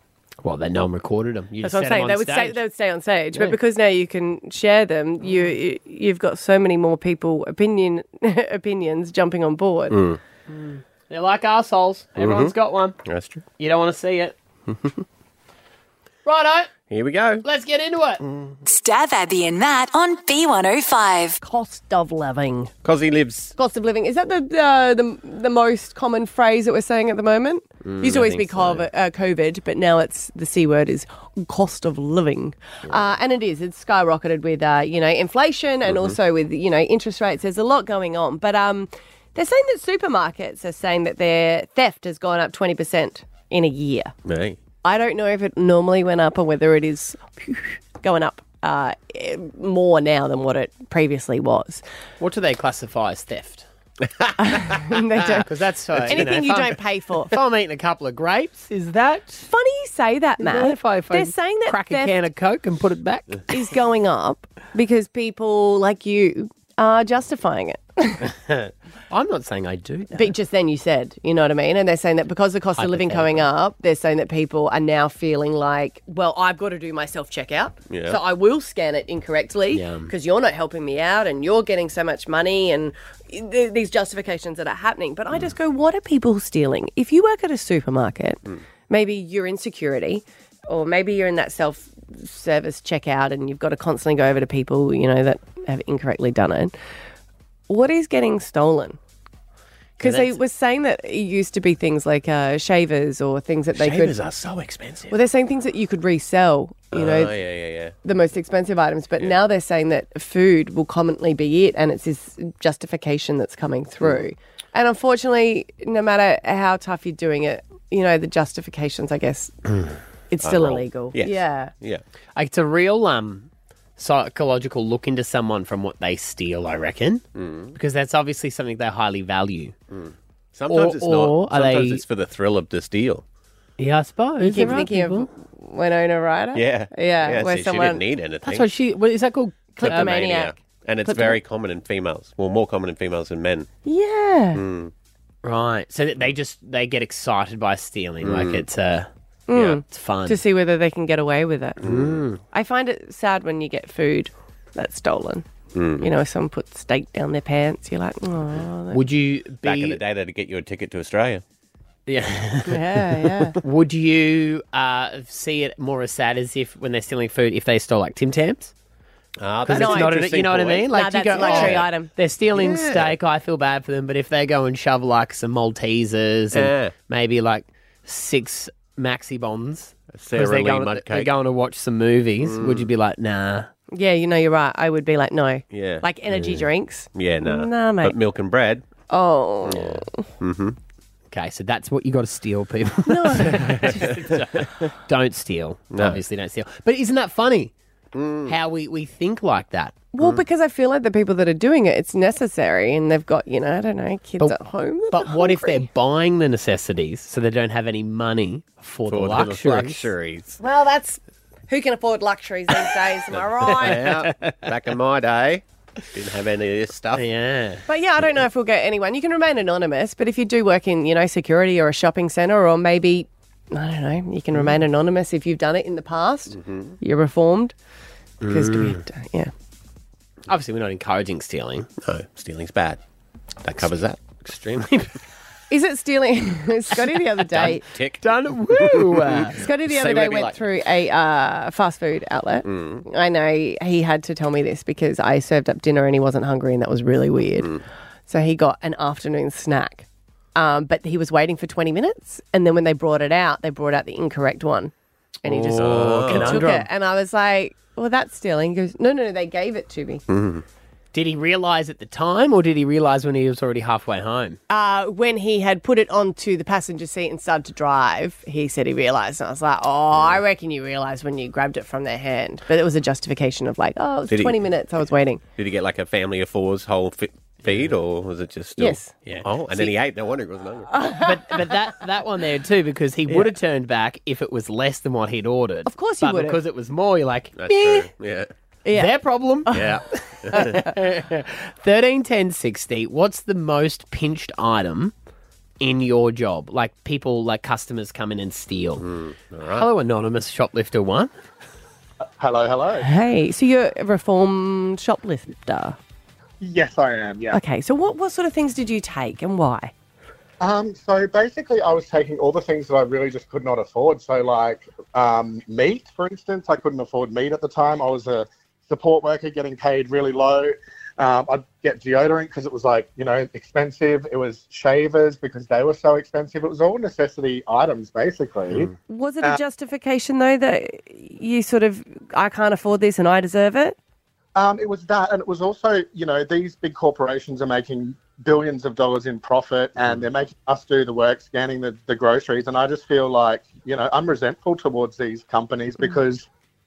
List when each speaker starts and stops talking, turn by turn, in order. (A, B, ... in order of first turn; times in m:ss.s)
0:00.4-0:02.6 A
0:01.6-0:10.0 B
0:09.9-0:10.2 C
0:10.5-0:13.0 A
0:12.2-0:13.4 C
0:13.6-0:14.4 A
0:14.7-0:14.9 C
0:16.2-0:16.7 A
0:16.9-0:17.4 C
0:17.4-0:18.2 A
0:18.2-0:18.6 C
0:18.6-0:21.4 D
0:21.4-0:22.7 B
0:22.8-0:23.6 C
0:23.6-0:44.1 B
0:27.8-0:28.8 C
0:35.8-0:36.2 C
0:44.2-0:44.6 C
0:44.8-0:51.8 B
0:52.2-0:53.6 A
0:54.0-0:55.0 C
0:54.4-0:55.5 B
0:55.4-0:59.5 A
0:56.0-0:56.2 C
0:56.1-0:57.4 B
0:59.4-1:02.1 B
1:00.4-1:03.6 A
1:03.5-1:08.3 B
1:08.4-1:10.3 A
1:10.1-1:36.7 B
1:12.8-1:13.5 A
1:17.9-1:18.2 C
1:19.7-1:20.1 A
1:37.7-1:39.0 B
1:40.0-1:40.4 A
1:40.0-1:44.2 B
1:43.7-1:45.2 C
1:45.1-1:47.4 B
1:46.9-1:47.9 C
1:48.0-1:59.5 B
2:00.3-2:01.7 B
2:00.4-2:02.0 C
2:02.4-2:09.7 A
2:07.3-2:07.7 C
2:09.9-2:13.2 C
2:10.7-2:12.0 A
2:13.8-2:15.3 A
2:14.4-2:18.0 B
2:16.5-2:18.7 C
2:18.4-2:20.2 A
2:19.8-2:21.4 B
2:19.8-2:23.7 C
2:23.8-2:24.6 B
2:24.5-2:24.9 C
2:25.4-2:30.4 A
2:28.2-2:28.6 C
2:29.5-2:31.8 B
2:31.8-2:32.2 C
2:31.8-2:32.4 A
2:32.5-2:35.4 B
2:35.7-2:36.1 C
2:36.0-2:39.0 B
2:38.9-2:40.0 A
2:39.6-2:41.4 C
2:42.1-2:43.0 A
2:42.7-2:43.6 B
2:43.6-2:48.7 A
2:49.4-2:51.9 C
2:49.6-3:03.7 A
2:49.7-2:50.2 B
2:50.9-2:52.1 B
2:52.5-2:53.2 C
2:56.5-2:56.9 C
3:00.1-3:01.3 C
3:02.4-3:02.9 C
3:03.9-3:08.2 B
3:05.7-3:08.8 C
3:09.1-3:10.1 B
3:09.6-3:10.8 C
3:11.3-3:17.7 A
3:13.1-3:14.2 B
3:13.7-3:14.0 C
3:15.9-3:16.2 C
3:18.1-3:18.6 C
3:18.5-3:20.0 A
3:20.1-3:25.8 B
3:20.2-3:20.4 C
3:25.1-3:30.1 A
3:29.1-3:30.6 C
3:30.6-3:34.2 B
3:33.3-3:37.2 C
3:33.7-3:34.7 A
3:37.2-3:37.8 A
3:37.9-3:47.7 B
3:46.5-3:47.0 C
3:48.4-3:49.5 B
3:48.5-3:49.0 A
3:50.5-3:51.9 A
3:52.0-3:53.0 C
3:53.6-3:54.4 C
3:54.4-3:55.2 A
3:55.7-3:57.8 B
3:57.5-4:00.6 C
3:58.2-3:59.6 A
3:59.5-4:14.9 B
4:02.6-4:03.0 C
4:15.4-4:20.2 B
4:15.5-4:16.9 A
4:15.6-4:16.7 C
4:20.3-4:20.6 C
4:21.1-4:24.6 A
4:24.7-4:35.4 B
4:30.1-4:30.4 C
4:34.3-4:34.6 C
4:35.6-4:40.9 C
4:37.6-4:37.9 A
4:38.8-4:39.1 B
4:40.9-4:41.6 B
4:41.2-4:48.1 A
4:45.8-4:46.6 B
4:47.6-4:48.5 C
4:48.8-4:49.1 B
4:48.9-4:49.8 A
4:49.6-4:50.0 B
4:49.7-4:50.9 C
4:50.5-4:55.1 A
4:50.5-4:50.9 B
4:55.8-4:59.0 A
4:59.0-4:59.9 C
4:59.7-5:01.3 A
5:02.4-5:03.1 E
5:03.0-5:06.0 B
5:06.6-5:07.6 E
5:07.5-5:09.9 B
5:10.6-5:29.6 E
5:29.1-5:34.0 B
5:34.5-5:46.5 E